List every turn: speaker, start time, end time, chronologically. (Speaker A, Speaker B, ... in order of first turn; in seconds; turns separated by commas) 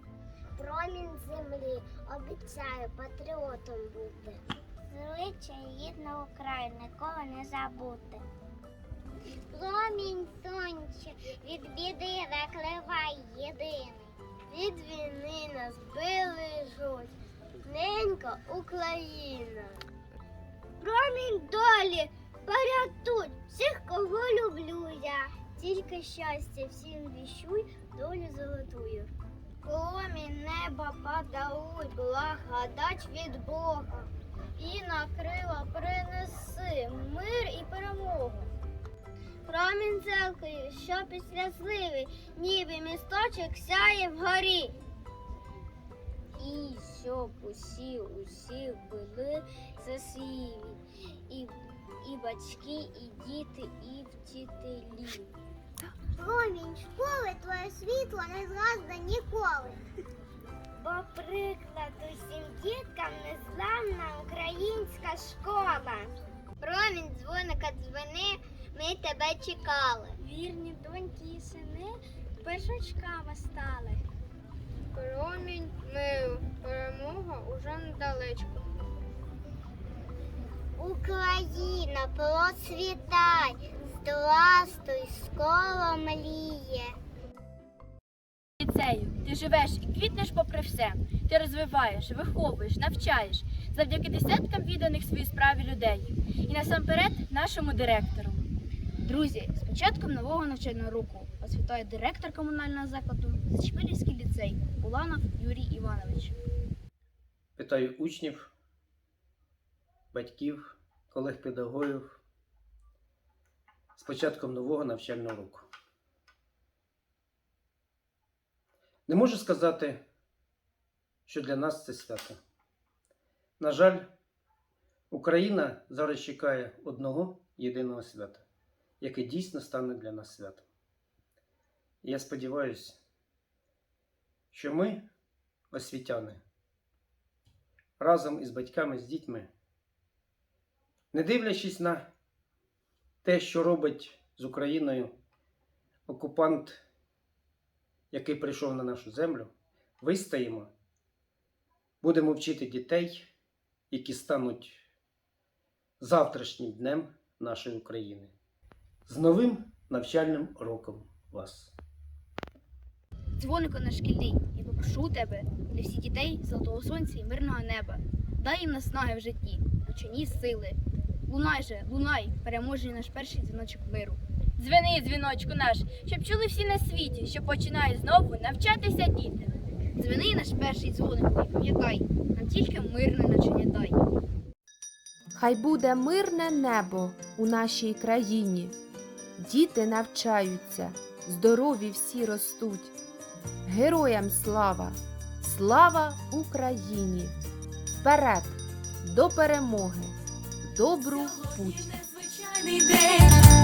Speaker A: 0.6-8.2, Speaker A: 9.5-17.1, Speaker A: 17.6-19.8, Speaker A: 20.8-29.1, Speaker A: 29.6-38.5, Speaker A: 39.5-44.8, Speaker A: 46.4-50.8, Speaker A: 51.3-55.3, Speaker A: 56.2-59.8, Speaker A: 60.8-70.2, Speaker A: 80.8-87.0, Speaker B: 88.6-98.5, Speaker C: 99.0-106.3, Speaker D: 107.6-108.5, Speaker D: 110.1-112.2, Speaker D: 114.0-115.7, Speaker D: 119.1-120.0, Speaker D: 121.3-122.4, Speaker D: 123.6-124.1, Speaker D: 125.1-128.4, Speaker D: 129.0-130.7, Speaker D: 132.0-133.0, Speaker D: 134.5-135.1, Speaker D: 135.7-136.4, Speaker D: 138.0-139.5, Speaker D: 141.1-142.1, Speaker D: 143.2-145.1, Speaker D: 146.1-146.8, Speaker D: 148.1-150.7, Speaker D: 152.0-153.3, Speaker D: 153.9-154.8, Speaker D: 156.0-158.3, Speaker D: 159.1-161.8, Speaker C: 163.4-174.2, Speaker B: 174.6-179.6, Speaker C: 180.0-184.0, Speaker E: 185.3-188.8, Speaker E: 189.4-192.9, Speaker E: 193.7-197.4, Speaker E: 198.0-200.2, Speaker E: 200.7-201.9